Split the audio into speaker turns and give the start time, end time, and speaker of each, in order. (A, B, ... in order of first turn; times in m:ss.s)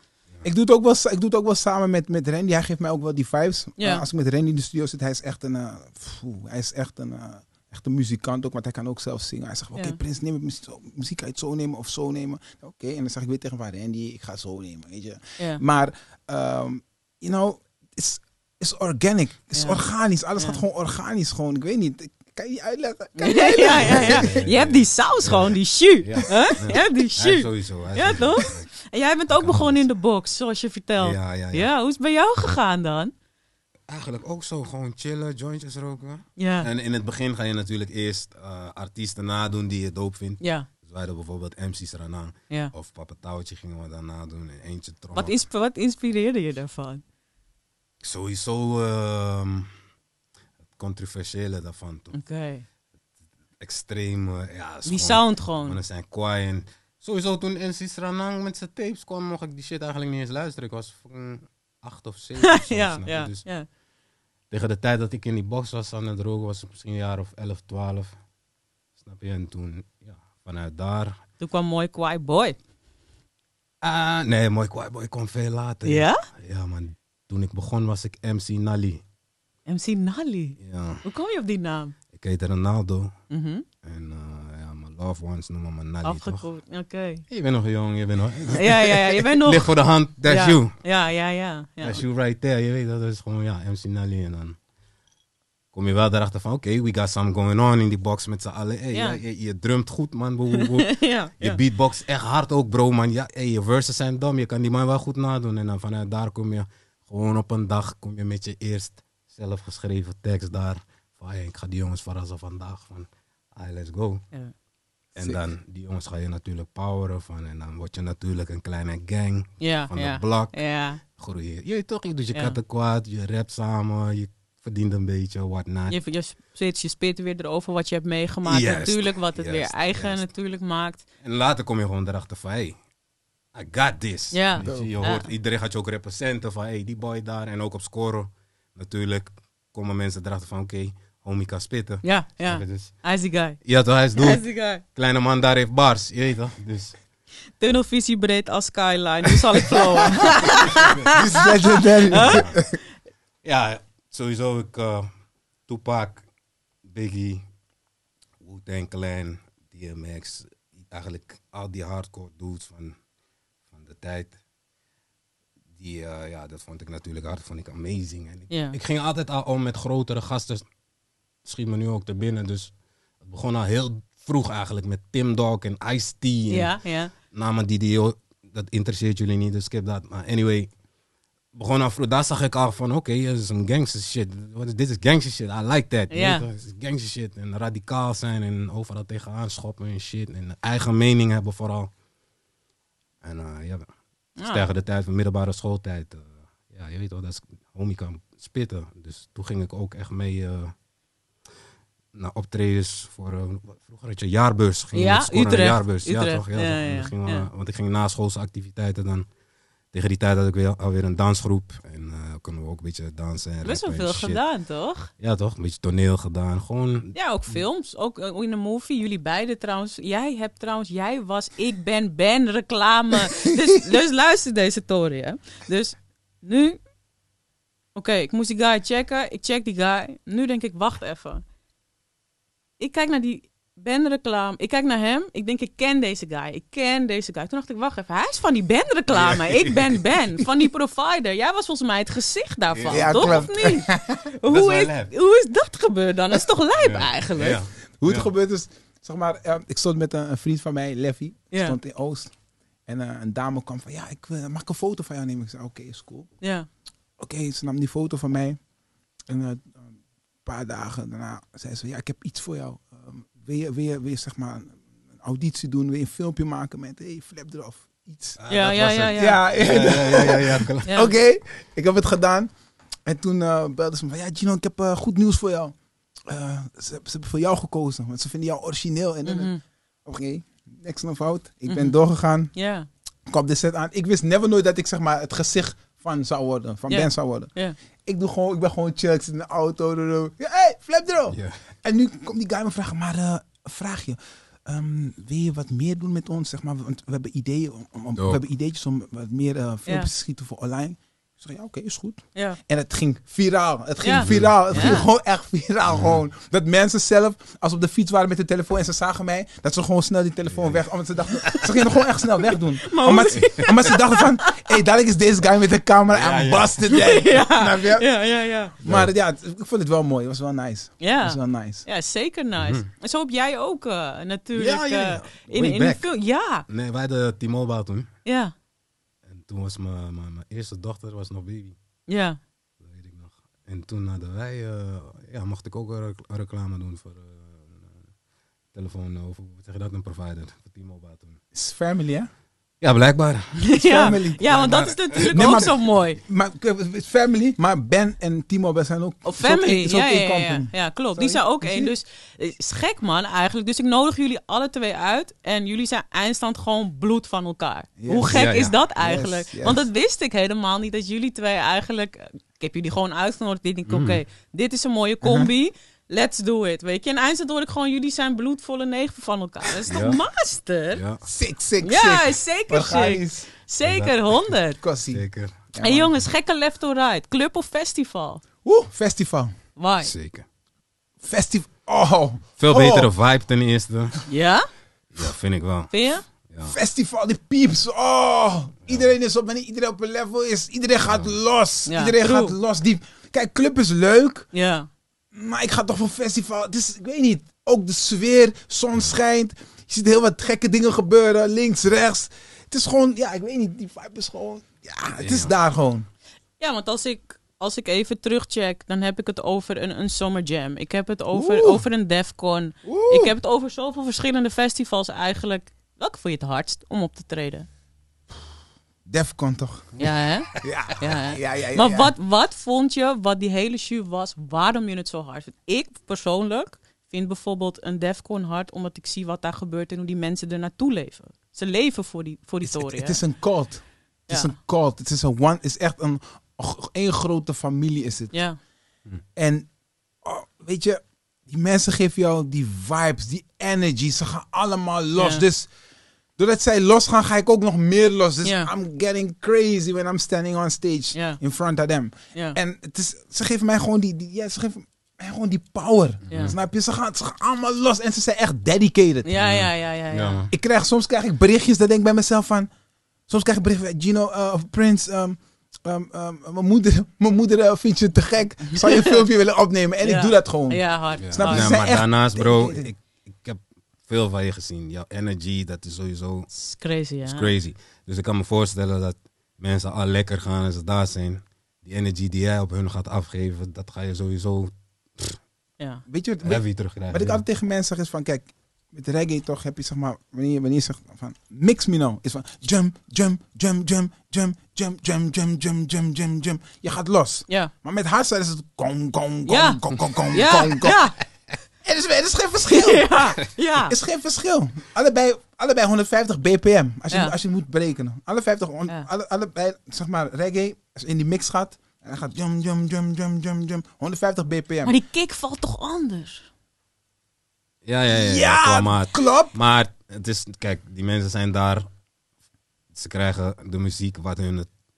0:00.4-0:24.3 A
0:03.8-0:04.0 B
0:19.6-0:19.8 B
0:23.2-0:33.1 B
0:23.8-0:28.7 C
0:29.3-0:29.8 C
0:31.0-0:31.7 C
0:33.9-0:45.4 C
0:36.4-0:36.7 B
0:40.4-0:40.7 B
0:45.1-0:47.0 B
0:48.0-0:49.7 C
0:50.8-0:52.1 C
0:52.1-0:52.6 B
0:53.6-1:03.4 C
0:54.8-0:55.8 B
1:02.4-1:03.7 B
1:04.5-1:08.1 C
1:09.0-1:11.2 C
1:11.4-1:12.6 B
1:13.8-1:19.0 C
1:15.8-1:16.2 B
1:19.7-1:22.0 B
1:20.6-1:21.0 C
1:22.1-1:23.1 C
1:23.3-1:23.6 B
1:23.8-1:26.4 C
1:26.0-1:27.2 B
1:27.3-1:30.7 C
1:28.5-1:29.7 B
1:30.2-1:32.0 B
1:31.8-1:34.6 C
1:35.7-1:54.2 C
1:38.9-1:39.2 B
1:40.5-1:41.6 B
1:55.2-2:00.6 C
1:59.6-2:01.0 B
2:01.1-2:06.0 C
2:02.3-2:02.6 B
2:05.9-2:11.0 B
2:08.4-2:10.3 C
2:11.2-2:12.8 C
2:13.5-2:23.0 C
2:14.3-2:15.3 B
2:14.6-2:14.9 A
2:22.0-2:23.6 B
2:23.6-2:27.0 C
2:24.2-2:24.8 B
2:27.6-2:32.5 B
2:29.8-2:32.8 A
2:30.7-2:31.1 C
2:32.1-2:32.6 C
2:33.4-2:35.1 C
2:35.7-2:36.2 C
2:36.8-2:37.4 C
2:38.4-2:43.0 C
2:43.7-2:44.3 C
2:45.8-2:50.6 C
2:48.5-2:48.8 B
2:51.4-2:56.8 C
2:56.5-2:57.1 B
2:57.3-3:00.7 C
3:01.5-3:11.9 C
3:06.1-3:06.4 B
3:13.2-3:13.8 C
3:14.4-3:14.6 B
3:14.4-3:20.7 C
3:22.1-3:29.3 C
3:24.9-3:27.5 B
3:29.9-3:34.4 C
3:33.6-3:35.1 B
3:35.2-3:37.6 C
3:37.1-3:46.8 B
3:47.9-3:51.4 B
3:52.8-4:07.6 B
3:59.1-4:00.0 C
4:02.7-4:03.5 C
4:02.9-4:04.2 A
4:04.4-4:05.1 C
4:06.8-4:08.3 C
4:08.0-4:12.3 A
4:11.5-4:11.8 B
4:12.9-4:16.3 A
4:16.4-4:16.7 B
4:17.2-4:18.6 A
4:19.3-4:19.9 A
4:20.4-4:28.4 A
4:28.4-4:31.0 C
4:28.5-4:29.4 B
4:29.2-4:32.5 A
4:33.0-4:39.5 A
4:39.2-4:39.6 B
4:40.0-4:42.5 A
4:41.7-4:42.0 B
4:42.5-4:42.9 B
4:43.3-4:47.5 A
4:46.9-4:47.8 B
4:48.0-5:18.1 A
4:51.3-4:51.6 C
4:58.1-4:58.4 C
5:04.0-5:05.0 B
5:04.2-5:05.0 C
5:05.9-5:06.2 C
5:10.5-5:10.8 C
5:12.8-5:14.8 B
5:16.1-5:16.8 C
5:16.9-5:18.7 B
5:18.8-5:21.8 A
5:21.0-5:26.6 B
5:22.6-5:22.8 C
5:24.5-5:26.0 C
5:26.7-5:28.1 C
5:28.2-5:28.5 B
5:29.3-5:31.8 C
5:32.1-5:32.4 B
5:32.8-5:38.1 C
5:38.7-5:41.4 C
5:41.5-5:42.3 A
5:42.8-5:43.6 C
5:43.6-5:46.2 B
5:43.8-5:51.9 A
5:44.5-5:45.7 C
5:49.2-6:11.0 B
5:58.0-5:58.4 A
5:58.3-5:58.7 C
5:59.0-5:59.9 A
6:03.9-6:04.2 C
6:05.2-6:05.5 A
6:09.9-6:10.2 C
6:10.9-6:11.2 C
6:11.2-6:13.5 A
6:11.8-6:14.8 B
6:13.8-6:14.6 C
6:14.8-6:16.1 A
6:15.1-6:15.5 C
6:15.8-6:18.4 B
6:18.6-6:19.5 A
6:19.8-6:20.1 B
6:20.0-6:20.4 C
6:21.2-6:23.1 A
6:22.6-6:24.2 C
6:24.3-6:24.6 B
6:25.1-6:25.9 C
6:25.9-6:26.2 B
6:26.5-6:26.8 C
6:26.6-6:34.5 A
6:31.0-6:31.3 C
6:31.8-6:32.6 B
6:34.5-6:34.9 B
6:35.3-6:46.1 A
6:45.2-6:45.5 C
6:46.6-6:57.7 B
6:51.3-6:51.8 A
6:52.8-6:53.3 A
6:59.0-7:00.0 A
7:00.0-7:13.2 B
7:00.5-7:02.1 A
7:12.6-7:18.3 A
7:14.3-7:14.5 B
7:18.3-7:18.6 B
7:19.4-7:19.7 A
7:20.2-7:25.7 A
7:25.2-7:25.4 B
7:26.4-7:39.3 A
7:28.4-7:28.7 B
7:31.1-7:31.4 B
7:36.3-7:36.6 C
7:39.2-7:40.4 B
7:39.4-7:40.5 C
7:40.5-7:42.7 A
7:43.3-7:52.9 A
7:48.7-7:49.2 B
7:50.0-7:51.7 B
7:51.2-7:56.5 C
7:56.5-7:57.5 B
7:57.2-8:05.4 C
8:06.1-8:21.0 A
8:06.4-8:07.4 C
8:19.4-8:21.2 B
8:21.8-8:34.9 A
8:22.6-8:24.0 B
8:34.8-8:36.5 B
8:37.8-8:41.9 C
8:38.1-8:39.5 A
8:42.9-8:44.7 C